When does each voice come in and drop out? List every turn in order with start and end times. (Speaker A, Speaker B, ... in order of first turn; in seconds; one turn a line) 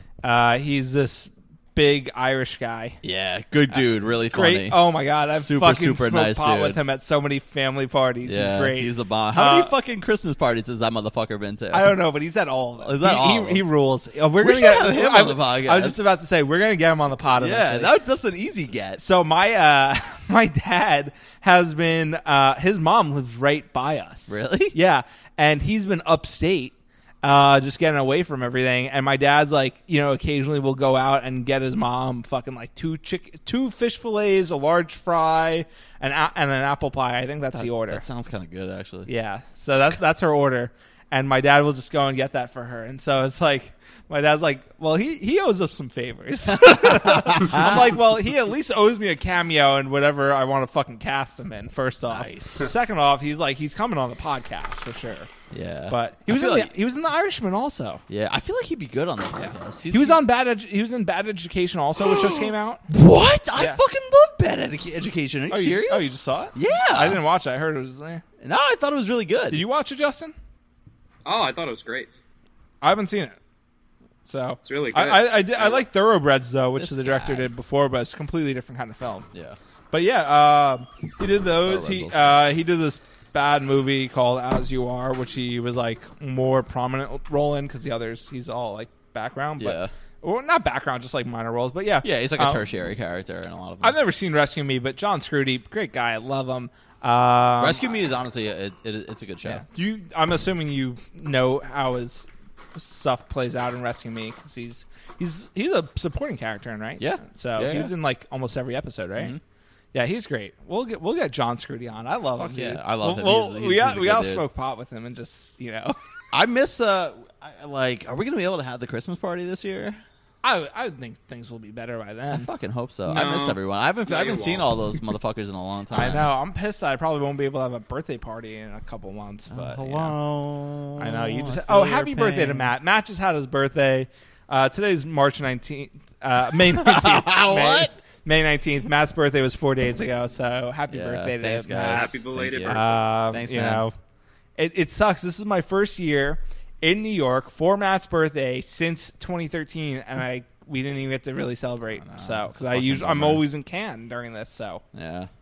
Speaker A: 0.2-3.0
Speaker B: 3.0-6.8
Speaker A: 3.7-9.7
Speaker B: 8.2-12.0
Speaker A: 11.7-17.9
Speaker B: 12.8-13.6
Speaker B: 14.4-16.0
Speaker B: 17.4-19.0
Speaker A: 19.0-38.0
Speaker B: 24.3-24.8
Speaker B: 37.5-39.1
Speaker A: 39.1-55.3
Speaker B: 46.5-48.0
Speaker B: 52.1-52.7
Speaker B: 55.5-56.7
Speaker A: 55.9-58.0
Speaker B: 58.1-60.2
Speaker A: 59.4-62.8
Speaker B: 62.0-67.2
Speaker A: 65.5-68.2
Speaker B: 68.4-69.6
Speaker A: 69.5-70.3
Speaker C: 71.2-72.1
Speaker A: 72.8-73.4
Speaker A: 74.3-79.3
Speaker C: 74.6-75.8
Speaker B: 76.8-77.5
Speaker B: 79.3-79.6
Speaker A: 79.9-92.6
Speaker B: 81.6-82.4
Speaker B: 89.6-89.9
Speaker B: 92.0-94.0
Speaker A: 93.8-97.8
Speaker B: 97.6-99.6
Speaker A: 99.4-109.4
Speaker B: 107.0-107.9
Speaker A: 109.9-116.0
Speaker B: 112.4-114.5
Speaker B: 116.3-120.0
Speaker A: 120.4-122.5
Speaker B: 122.3-126.3
Speaker C: 123.1-124.7
Speaker A: 125.9-130.2
Speaker B: 129.5-132.7
Speaker A: 131.0-143.9
Speaker B: 136.7-137.9
Speaker B: 140.9-143.8
Speaker C: 141.9-143.0
Speaker A: 144.6-154.8
Speaker B: 152.0-153.4
Speaker B: 154.9-155.3